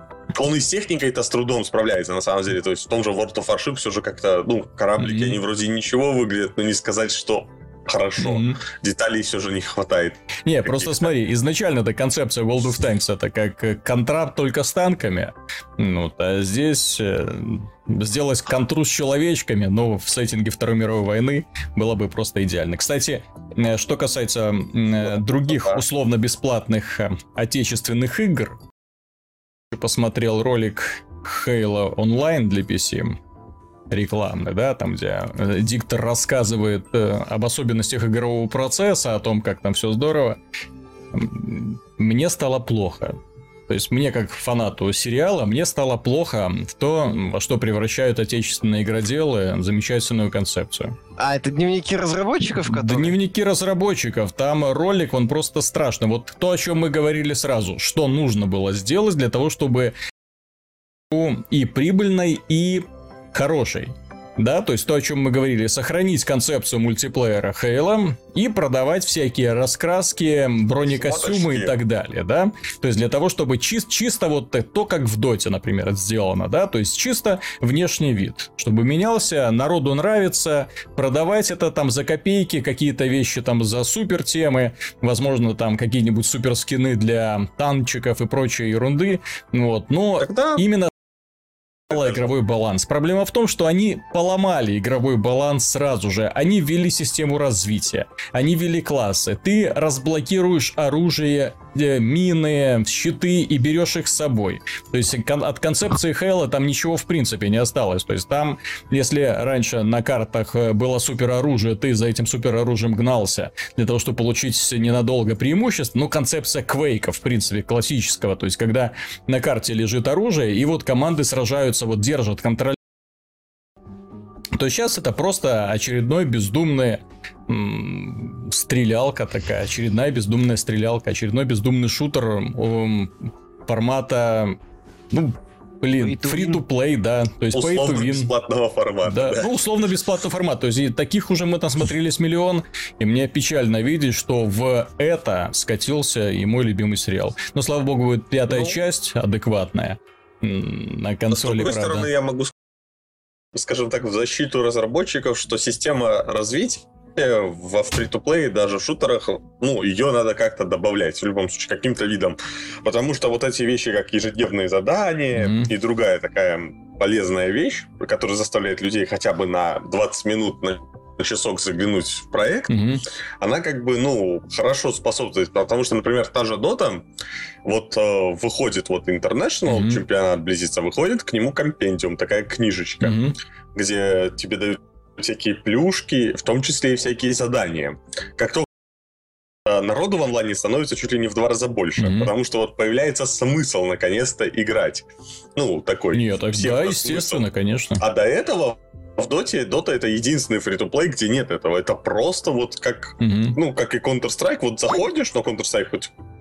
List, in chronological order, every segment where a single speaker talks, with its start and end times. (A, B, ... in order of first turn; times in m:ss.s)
0:00.3-0:11.1 A
0:05.0-0:05.4 B
0:08.2-0:08.6 B
0:10.4-0:28.6 B
0:25.0-0:25.8 A
0:29.7-0:33.2 B
0:33.9-0:40.4 B
0:41.1-0:51.0 B
0:51.2-0:53.2 C
0:52.6-0:59.9 B
1:01.1-1:30.9 B
1:10.9-1:11.8 A
1:30.2-1:30.6 A
1:31.9-2:02.8 B
1:31.9-1:32.2 A
2:04.6-2:14.6 B
2:15.1-2:18.3 B
2:16.0-2:16.6 C
2:17.5-2:19.5 A
2:19.0-2:32.1 B
2:28.5-2:28.8 A
2:31.3-2:32.5 A
2:33.5-2:52.8 A
2:45.4-2:45.7 B
2:52.7-2:53.0 B
2:53.4-2:57.0 A
2:57.6-3:08.6 A
2:59.6-3:00.0 B
3:03.0-3:03.4 B
3:09.6-3:15.0 A
3:12.0-3:12.3 B
3:15.6-3:17.4 A
3:16.1-3:18.0 B
3:18.0-3:26.1 A
3:23.2-3:23.6 B